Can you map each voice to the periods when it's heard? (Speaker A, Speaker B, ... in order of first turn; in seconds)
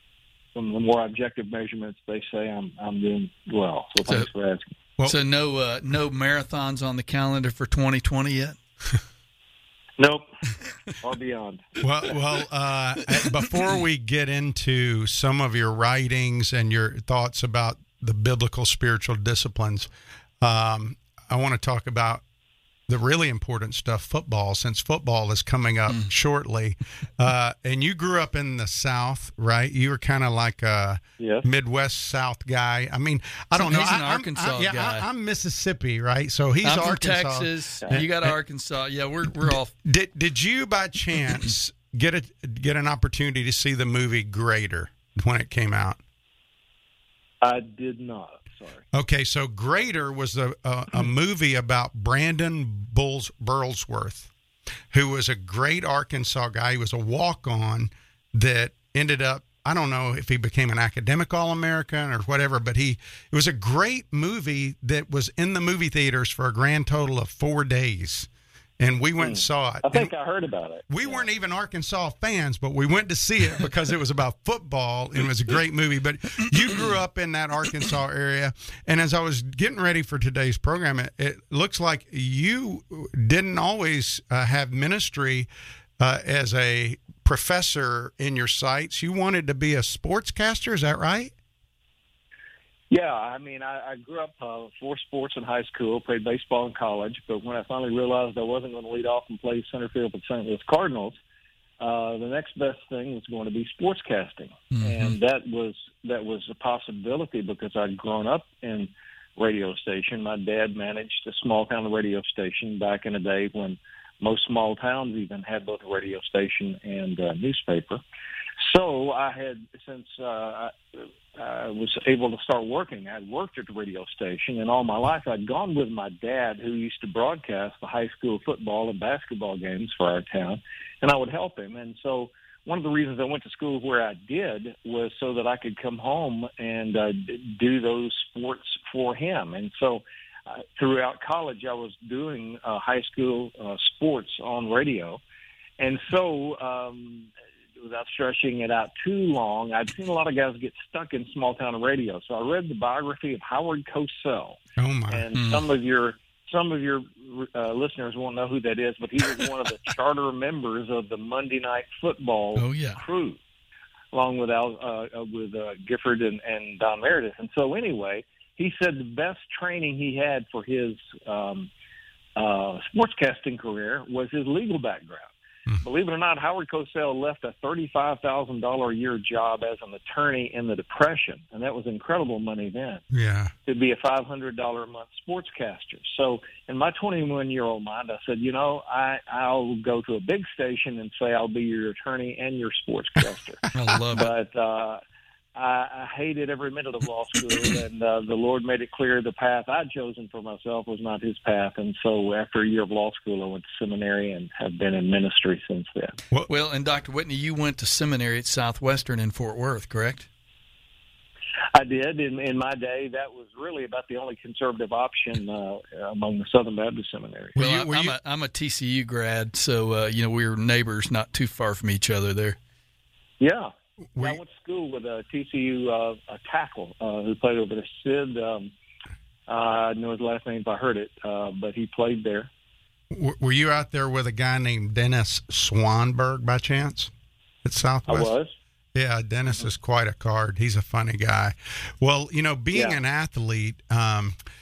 Speaker A: 0.6-4.7, 10.0-10.3, 11.0-11.8, 31.2-31.5, 47.4-48.9, 69.2-71.2, 92.9-101.2, 101.8-118.0, 118.6-145.2, 145.8-154.6, 155.1-163.4, 164.1-171.7, 172.4-183.0, 183.7-195.0, 195.6-206.2, 211.7-217.6, 223.4-228.7, 229.5-232.5, 238.1-238.5, 242.7-243.0
Speaker B: 5.0-8.6, 33.6-35.0, 36.6-39.7, 104.8-105.1, 155.4-155.6, 162.6-163.0, 193.7-194.3, 206.5-210.3, 217.6-222.6
Speaker C: 11.8-19.9, 20.4-22.2, 22.9-38.4, 39.5-46.0, 48.9-54.3, 54.9-70.1, 70.9-91.3, 154.8-155.2, 183.1-183.5, 217.6-218.2, 224.2-224.4, 233.1-237.1, 237.6-238.3, 238.9-244.4